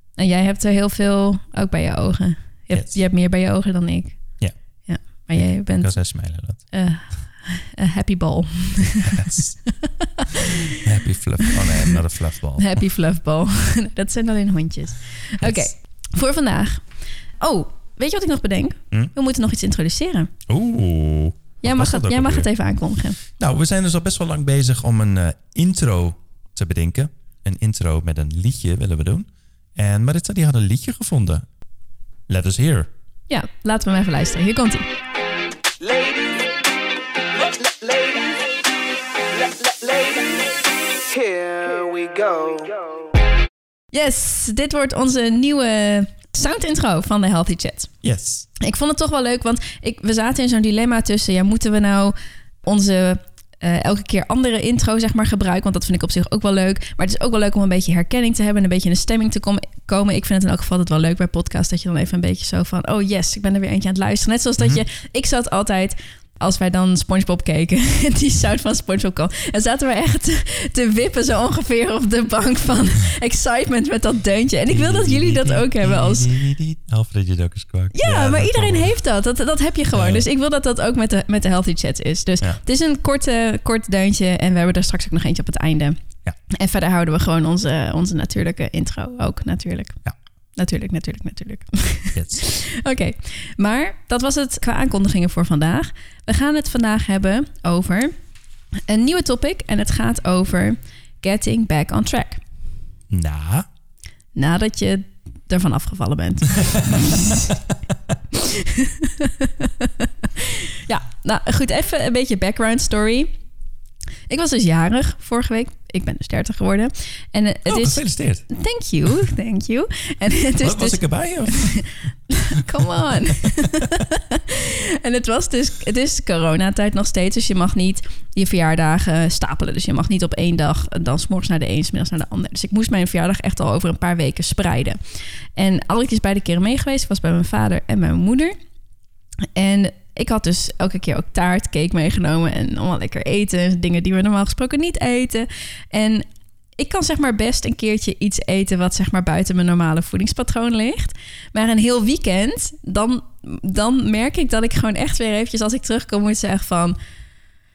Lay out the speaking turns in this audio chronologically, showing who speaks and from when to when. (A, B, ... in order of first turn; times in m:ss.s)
0:00.2-0:04.2 A
0:02.7-0:03.0 B
0:04.9-0:06.0 A
0:05.8-0:06.6 B
0:06.7-0:10.8 A
0:09.0-0:09.5 B
0:10.8-0:12.8 B
0:11.4-0:12.0 A
0:12.6-0:16.9 A
0:15.4-0:15.7 B
0:17.4-0:20.3 A
0:20.5-0:22.5 B
0:21.6-0:23.2 A
0:23.4-0:31.5 B
0:32.3-0:32.9 B
0:33.3-0:34.9 A
0:35.8-0:36.6 C
0:37.3-0:38.6 C
0:39.3-0:42.9 C
0:43.9-0:47.9 A
0:48.0-0:48.5 B
0:48.6-1:16.3 A
1:14.7-1:19.0 B
1:17.9-1:26.0 A
1:19.9-1:20.3 B
1:26.5-1:30.0 A
1:30.6-1:38.1 A
1:32.2-1:32.4 B
1:38.9-1:42.4 A
1:43.1-1:43.7 B
1:44.4-1:47.5 A
1:46.8-1:47.6 B
1:48.3-1:53.3 A
1:54.3-2:15.0 A
1:57.7-1:58.4 B
2:00.6-2:01.9 B
2:02.6-2:04.0 B
2:15.6-2:18.6 A
2:19.6-2:37.0 A